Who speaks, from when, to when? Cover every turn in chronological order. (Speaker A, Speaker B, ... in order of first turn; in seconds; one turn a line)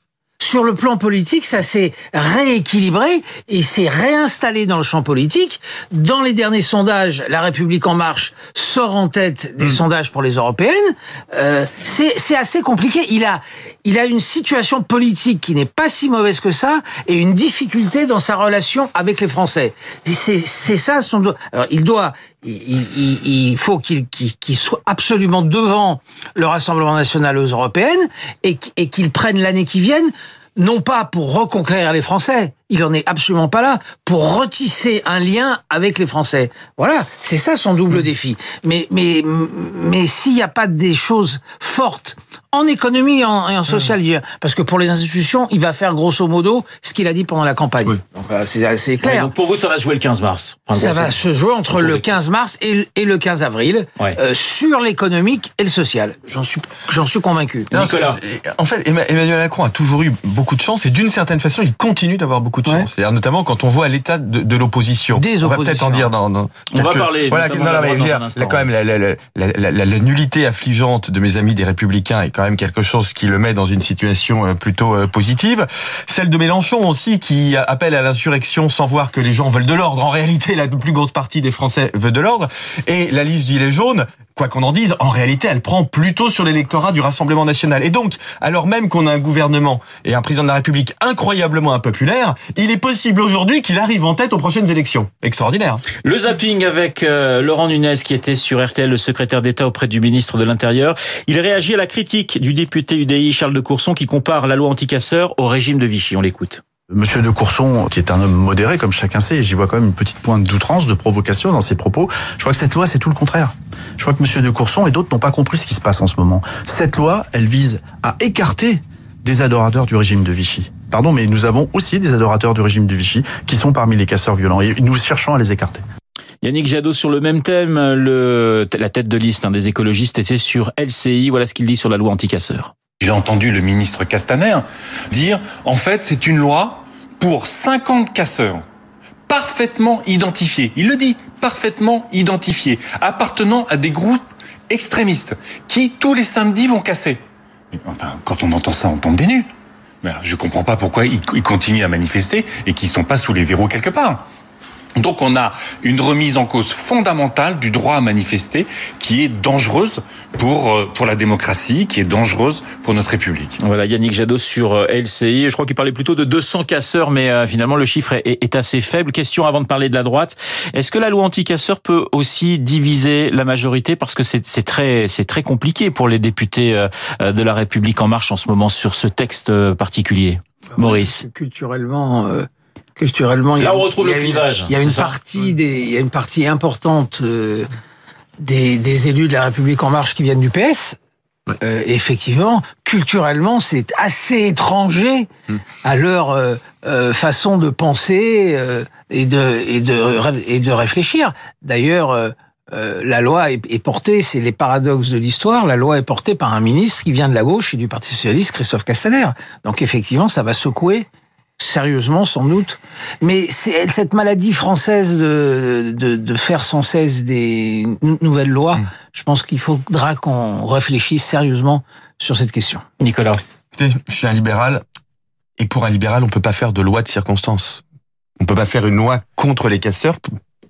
Speaker A: 0.4-49.3
Speaker B: 49.0-51.1
Speaker A: 50.7-57.7
Speaker B: 51.7-52.1
Speaker C: 57.7-95.8
Speaker B: 57.7-58.2
Speaker A: 65.1-66.1
Speaker B: 66.7-68.7
Speaker B: 96.0-106.6
Speaker D: 106.9-125.8
Speaker B: 126.4-132.7
Speaker E: 133.0-138.6
Speaker E: 139.3-147.2
Speaker E: 147.8-149.5
Speaker E: 150.0-154.2
Speaker E: 155.0-163.6
Speaker B: 163.6-181.2
Speaker A: 180.7-187.7
Speaker B: 183.6-185.2
Speaker A: 188.4-190.9
Speaker A: 191.6-195.3
Speaker A: 195.8-211.1
Speaker A: 211.6-222.8
Speaker B: 223.0-223.4
Speaker C: 223.7-224.8
Speaker C: 225.6-227.8
Speaker C: 228.4-230.2